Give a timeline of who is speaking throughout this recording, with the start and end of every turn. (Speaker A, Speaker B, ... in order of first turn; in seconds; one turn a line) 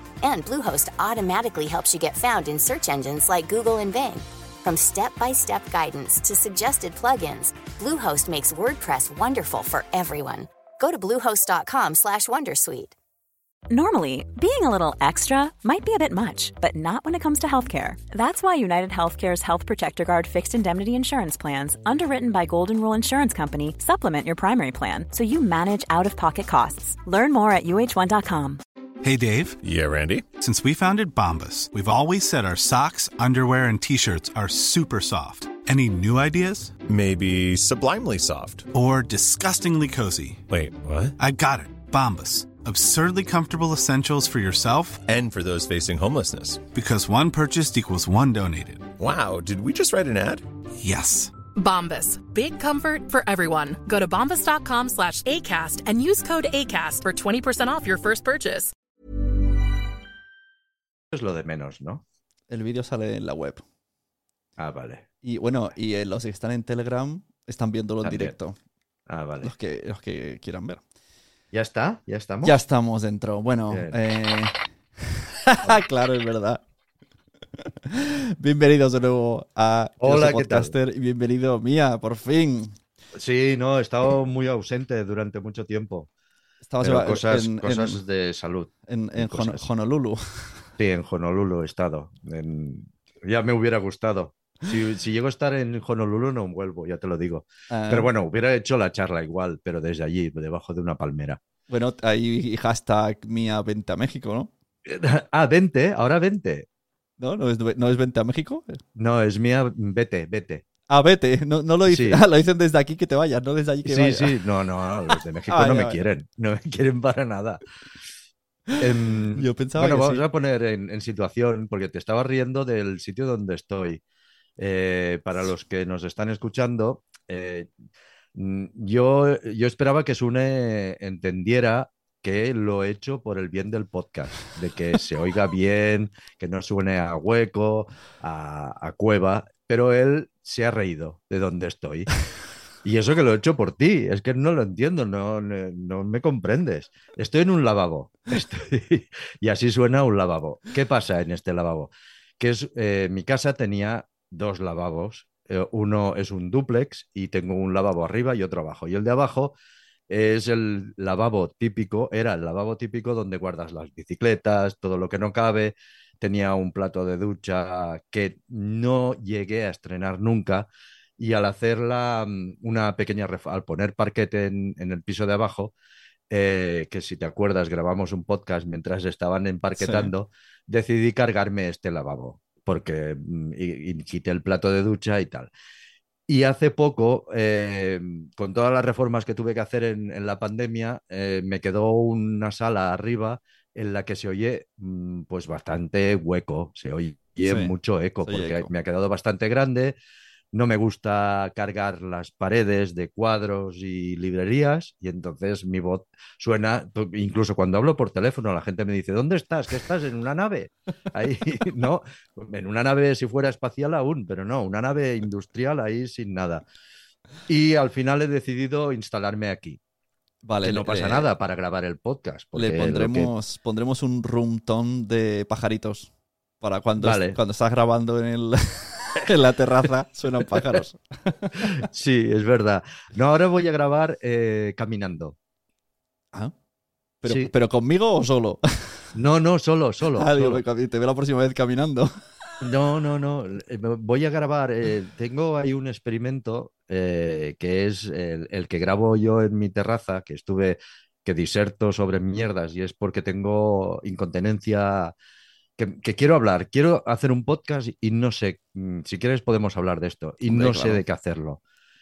Speaker A: 0.2-12.9
Speaker B: 13.7-28.6
Speaker C: 29.0-29.6
Speaker D: 29.6-30.3
Speaker C: 30.3-36.8
Speaker D: 36.8-38.7
Speaker C: 38.7-40.5
Speaker D: 40.5-41.1
Speaker C: 41.2-45.0
Speaker D: 45.0-46.7
Speaker C: 46.7-48.9
Speaker D: 49.0-50.5
Speaker C: 50.8-51.3
Speaker E: 51.6-58.7
Speaker F: 61.1-62.0
Speaker G: 62.5-63.6
Speaker F: 64.6-65.0
Speaker G: 65.2-68.6
Speaker F: 68.0-68.3
Speaker F: 69.1-69.5
Speaker G: 69.4-70.8
Speaker F: 71.5-72.6
Speaker G: 72.4-76.6
Speaker F: 73.7-74.0
Speaker G: 77.7-82.8
Speaker F: 80.0-80.7
Speaker F: 83.2-86.1
Speaker G: 86.7-88.0
Speaker F: 86.8-89.7
Speaker G: 88.9-90.7
Speaker F: 90.8-101.4
Speaker G: 97.7-98.1
Speaker G: 101.7-104.5
Speaker F: 104.9-106.7
Speaker G: 107.2-108.8
Speaker F: 109.0-110.6
Speaker G: 110.9-114.3
Speaker F: 111.9-112.2
Speaker F: 113.9-117.6
Speaker G: 115.5-116.0
Speaker F: 118.8-124.0
Speaker G: 119.3-120.2
Speaker F: 124.6-127.7
Speaker F: 128.3-142.1
Speaker F: 142.8-159.6
Speaker F: 160.1-175.7
Speaker F: 176.3-185.5
Speaker G: 179.8-180.1
Speaker F: 186.3-200.0
Speaker G: 197.4-198.7
Speaker F: 200.5-216.7
Speaker F: 217.5-219.8
Speaker G: 220.4-221.3
Speaker F: 220.6-223.3
Speaker G: 222.6-226.1
Speaker G: 226.6-231.8
Speaker F: 227.0-227.4
Speaker F: 231.5-235.4
Speaker G: 237.2-239.1
Speaker F: 237.2-237.5
Speaker F: 239.2-240.6
Speaker G: 240.2-242.1
Speaker F: 242.6-255.2
Speaker F: 255.8-261.6
Speaker G: 260.5-261.0